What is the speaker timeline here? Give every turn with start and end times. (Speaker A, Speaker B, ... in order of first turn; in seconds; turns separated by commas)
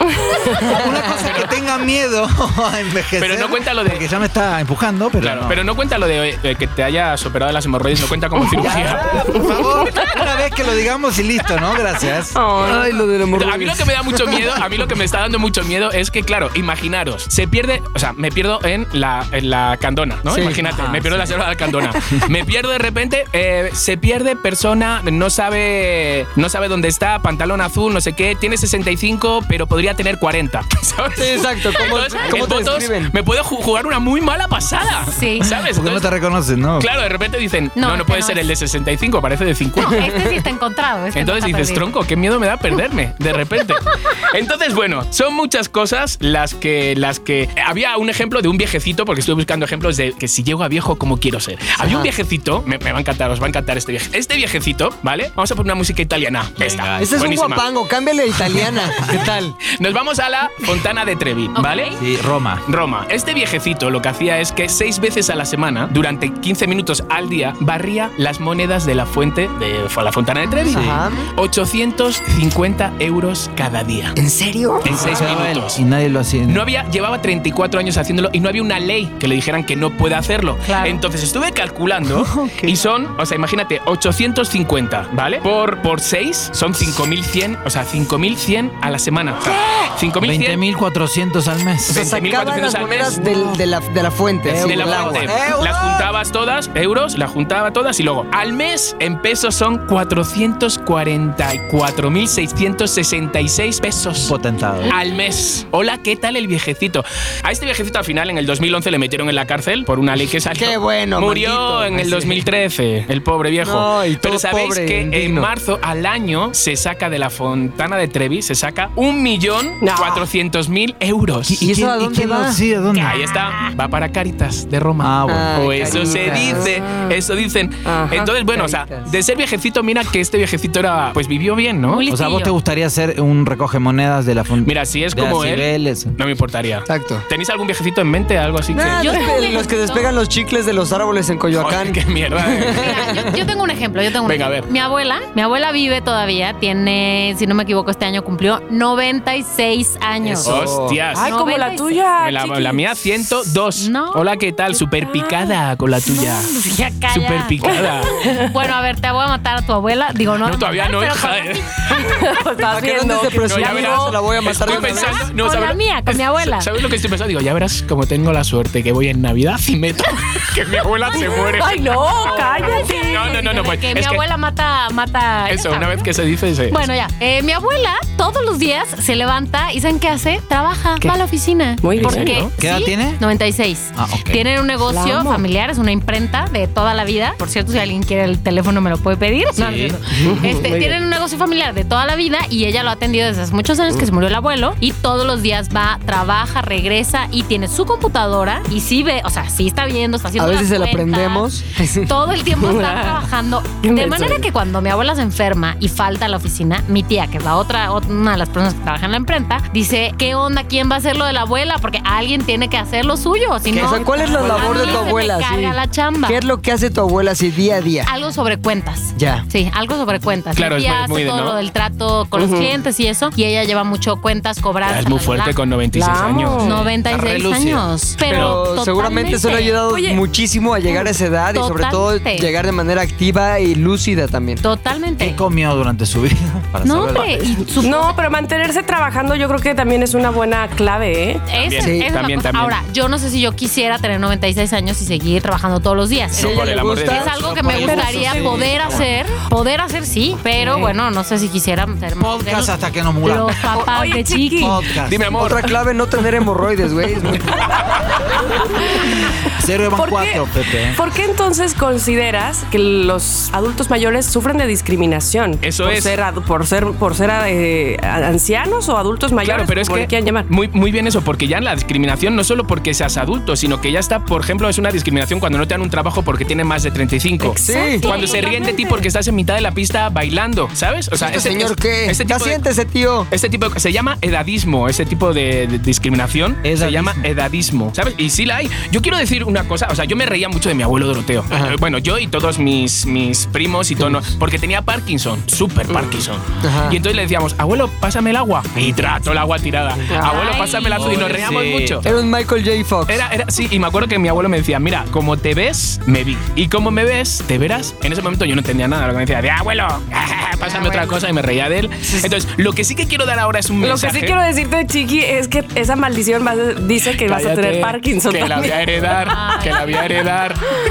Speaker A: 0.2-0.7, Speaker B: 0.6-5.6, Speaker C: 1.1-1.5, Speaker C: 3.2-4.0, Speaker C: 5.2-9.1, Speaker A: 8.4-8.7, Speaker B: 8.6-12.4, Speaker D: 8.7-9.0, Speaker A: 9.3-10.2, Speaker A: 12.3-13.0, Speaker D: 12.6-14.5, Speaker C: 13.3-36.1, Speaker D: 20.3-20.6, Speaker B: 20.5-21.4, Speaker D: 31.1-33.1, Speaker E: 35.1-35.5, Speaker B: 35.5-36.9, Speaker C: 36.8-40.1, Speaker E: 37.8-38.5, Speaker E: 39.8-41.9, Speaker D: 39.9-40.4, Speaker C: 41.1-57.6, Speaker D: 51.8-52.1, Speaker B: 56.6-57.3, Speaker D: 57.0-59.6, Speaker C: 59.6-61.9, Speaker E: 61.5-62.0, Speaker B: 62.0-62.6, Speaker C: 62.6-74.2, Speaker E: 70.4-71.3, Speaker D: 70.7-71.2, Speaker B: 70.7-71.0, Speaker D: 74.2-75.1, Speaker C: 74.8-75.8, Speaker B: 74.8-76.6, Speaker C: 76.5-90.6, Speaker E: 80.6-81.0, Speaker B: 82.1-82.9, Speaker B: 90.2-92.1, Speaker D: 91.9-95.4, Speaker C: 91.9-93.2, Speaker B: 94.4-96.1, Speaker C: 94.5-104.3, Speaker B: 104.2-104.9, Speaker C: 104.9-121.7, Speaker D: 110.5-112.4, Speaker D: 113.6-115.5, Speaker A: 119.8-120.3, Speaker B: 121.5-123.2, Speaker D: 121.6-122.6, Speaker C: 123.0-132.0, Speaker E: 123.0-123.7, Speaker B: 125.0-125.7, Speaker D: 125.3-126.7, Speaker A: 125.9-127.2, Speaker A: 127.8-128.3, Speaker D: 128.5-129.1, Speaker E: 131.8-132.5, Speaker B: 132.1-136.1, Speaker C: 134.6-139.2, Speaker D: 136.9-137.2, Speaker D: 138.7-143.4, Speaker E: 138.9-140.1, Speaker C: 141.5-143.0, Speaker E: 142.7-150.5, Speaker C: 144.2-144.7, Speaker D: 150.3-151.0, Speaker C: 150.4-151.3, Speaker A: 151.1-152.8, Speaker E: 151.1-152.0, Speaker C: 152.2-156.6, Speaker E: 153.8-154.3, Speaker E: 156.1-161.7, Speaker C: 157.1-158.2, Speaker A: 157.7-158.6, Speaker C: 160.4-161.7, Speaker A: 161.9-165.1, Speaker D: 162.6-165.3, Speaker C: 163.4-174.2, Speaker E: 164.8-166.7, Speaker A: 171.1-173.4, Speaker E: 172.2-176.1, Speaker C: 175.5-176.8, Speaker E: 176.7-216.4, Speaker A: 181.8-182.4, Speaker C: 181.9-182.5, Speaker B: 182.6-183.2, Speaker B: 183.9-184.4, Speaker A: 184.9-185.4, Speaker B: 189.6-190.0, Speaker A: 190.2-191.0, Speaker D: 200.4-202.2, Speaker A: 202.6-203.2, Speaker A: 203.8-204.4, Speaker D: 213.7-218.1, Speaker A: 213.8-215.1, Speaker E: 218.0-225.6, Speaker D: 219.1-219.4, Speaker C: 220.5-221.6, Speaker A: 222.3-222.7, Speaker C: 224.8-226.9, Speaker A: 225.9-226.8, Speaker E: 226.6-229.8, Speaker B: 227.0-227.9, Speaker D: 228.2-234.6, Speaker C: 228.3-228.6, Speaker A: 229.9-230.2, Speaker E: 230.9-232.5, Speaker E: 234.6-235.4, Speaker B: 235.2-237.6, Speaker E: 236.8-238.2, Speaker A: 237.8-241.4, Speaker E: 241.5-254.8, Speaker C: 241.6-242.7, Speaker D: 241.8-242.1, Speaker D: 246.3-247.3, Speaker C: 246.3-248.6, Speaker B: 247.3-249.0, Speaker A: 247.8-249.0, Speaker A: 250.6-250.9, Speaker B: 252.2-253.6, Speaker A: 253.7-254.9, Speaker B: 254.6-255.2, Speaker C: 255.0-255.7, Speaker D: 255.3-257.6, Speaker A: 258.5-270.5, Speaker B: 259.5-261.0, Speaker C: 265.6-266.2, Speaker C: 269.4-282.6, Speaker A: 277.4-279.1, Speaker D: 277.6-278.1, Speaker E: 277.8-278.6, Speaker D: 281.2-283.3, Speaker C: 283.3-302.1, Speaker B: 286.6-287.3, Speaker D: 291.5-291.8, Speaker D: 294.0-294.2, Speaker D: 296.6-297.0, Speaker D: 300.1-300.3, Speaker E: 300.2-301.4, Speaker B: 300.9-302.1, Speaker D: 302.0-303.2, Speaker C: 303.1-314.4, Speaker E: 310.6-311.2, Speaker D: 312.0-312.3, Speaker A: 313.8-318.9, Speaker C: 317.1-320.8, Speaker E: 319.2-320.1